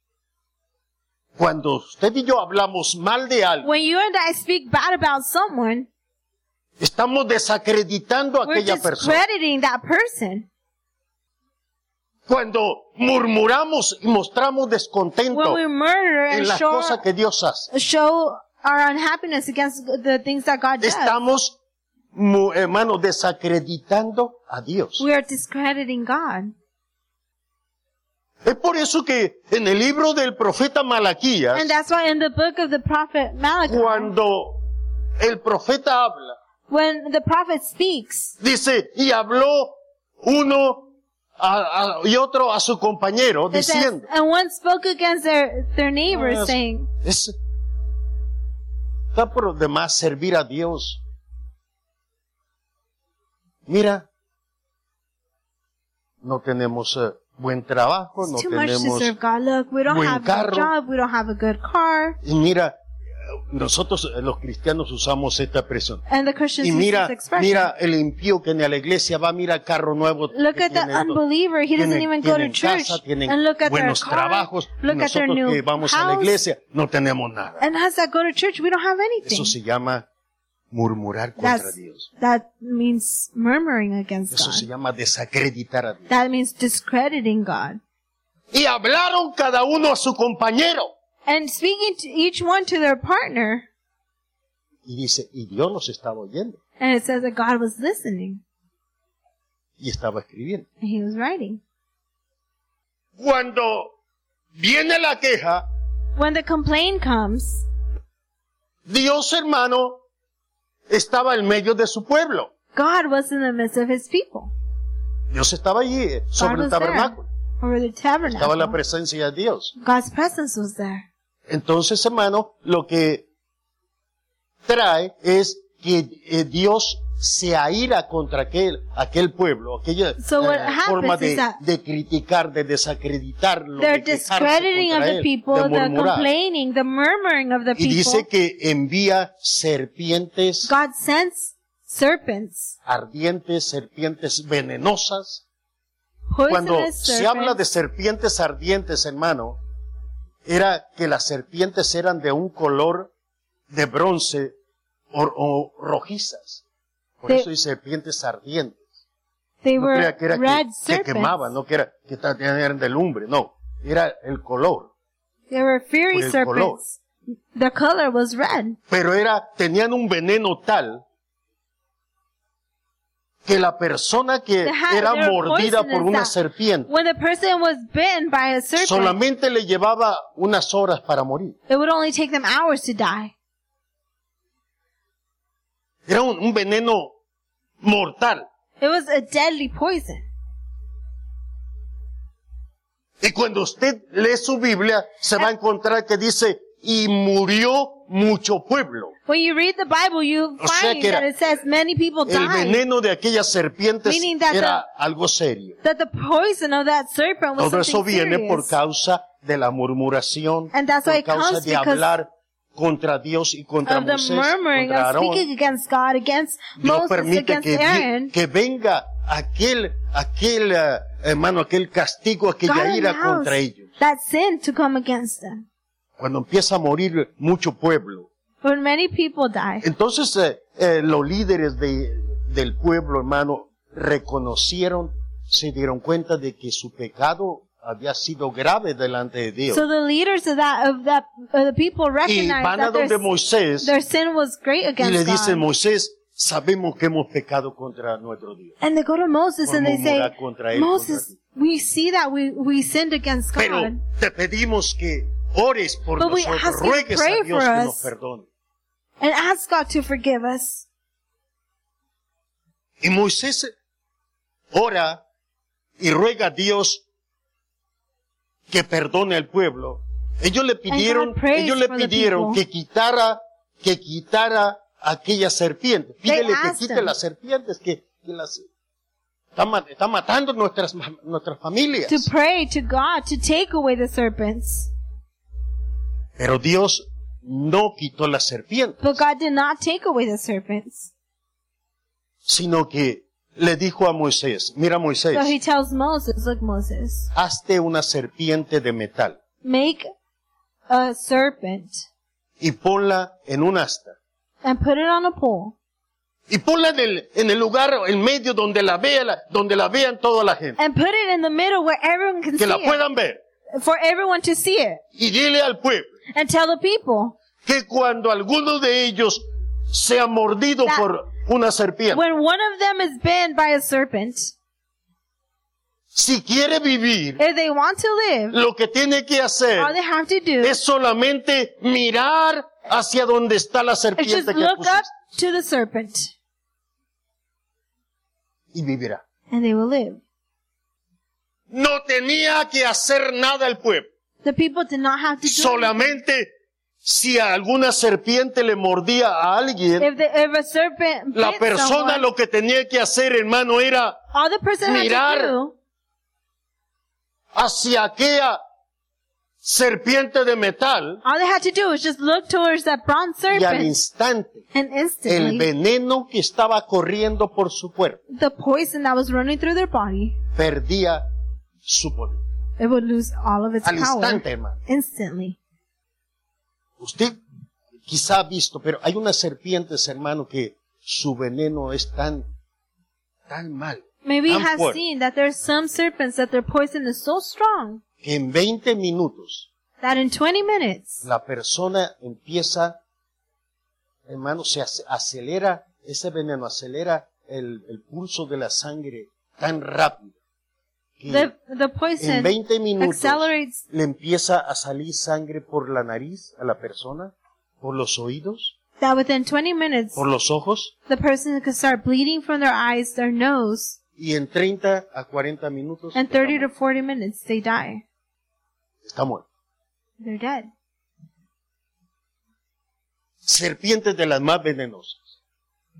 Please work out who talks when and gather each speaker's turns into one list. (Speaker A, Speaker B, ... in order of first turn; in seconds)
Speaker A: 1.4-3.7, 6.8-9.2, 12.3-15.6, 16.3-17.7, 20.8-21.6, 22.1-25.1, 28.4-31.7, 33.7-34.6, 35.2-36.4, 38.4-44.1, 46.1-47.3, 49.1-51.0, 53.7-54.0, 56.2-59.1, 59.9-60.7, 62.2-62.7, 63.5-66.0, 66.6-71.2, 71.7-77.6, 79.2-80.0, 80.7-82.1, 84.3-86.1, 88.5-90.9, 94.8-96.6, 99.8-100.7, 103.2-103.9, 104.5-105.6, 108.9-110.0, 110.9-112.5, 115.3-117.2, 118.2-119.7, 121.5-123.2, 124.7-136.3, 137.8-140.7, 142.8-145.4, 146.5-149.6, 150.4-153.1, 153.7-154.5, 155.1-156.6, 157.2-158.8, 159.8-164.9, 166.1-166.8, 168.9-171.0, 173.4-176.9, 178.8-181.6, 186.1-187.1, 187.8-188.4, 193.2-199.1, 200.6-201.3, 202.2-205.8, 207.6-215.4, 216.8-223.9, 226.2-228.3, 229.8-239.8, 242.2-243.9, 245.0-248.7, 249.6-251.4, 253.6-258.5, 263.0-263.7, 264.7-265.2, 266.0-267.0, 268.7-278.6, 279.6-282.3, 286.4-289.0, 292.4-295.5, 297.3-299.4, 302.6-304.2, 306.5-310.8, 312.6-313.4, 315.2-316.1, 317.6-322.2, 326.1-327.4, 328.5-329.9, 330.6-335.1, 338.7-339.2, 341.7-344.1, 345.4-346.5, 347.0-350.1, 351.3-354.2, 354.8-355.5, 357.5-358.6, 359.6-361.2, 363.5-364.6, 365.3-368.2, 370.5-371.2, 371.9-372.4, 373.8-374.8, 377.0-377.4, 378.1-382.4, 383.5-385.0, 388.2-389.7, 391.2-393.0, 394.3-400.3, 401.2-401.5, 402.2-408.7, 410.1-410.9, 414.2-416.7, 419.0-419.4, 423.4-425.2
Speaker B: 3.6-5.9, 8.4-10.5, 15.3-17.0, 17.7-21.1, 25.0-26.5, 31.5-34.1, 36.7-38.3, 43.5-46.9, 58.2-62.2, 66.1-67.7, 70.3-76.4, 77.6-79.5, 81.4-84.7, 86.1-87.8, 91.2-93.7, 96.8-98.4, 100.8-101.6, 106.2-107.7, 112.7-114.5, 116.4-118.8, 119.8-121.0, 130.2-131.6, 133.8-138.2, 140.6-142.8, 146.3-147.6, 159.6-161.5, 165.5-167.0, 167.5-168.8, 174.6-176.3, 176.9-179.2, 181.7-183.3, 188.8-190.2, 199.2-202.8, 204.0-204.8, 205.8-208.7, 210.7-212.1, 213.8-218.3, 222.7-225.6, 228.6-229.8, 239.7-243.2, 243.8-245.6, 248.8-254.0, 256.2-258.1, 259.2-260.9, 270.9-272.6, 276.2-277.1, 282.1-284.9, 289.0-291.1, 295.3-297.3, 299.6-300.1, 300.9-302.0, 304.6-305.7, 310.8-313.0, 313.7-315.0, 316.3-317.4, 322.1-324.5, 327.4-328.6, 329.8-330.8, 334.2-336.3, 339.5-340.2, 344.4-346.1, 350.0-352.2, 354.3-355.7, 361.2-363.9, 364.7-365.7, 368.3-370.4, 372.8-375.6, 384.2-388.0, 390.0-391.2, 401.3-403.8, 409.0-410.2, 411.1-414.0, 416.1-418.0, 420.2-420.7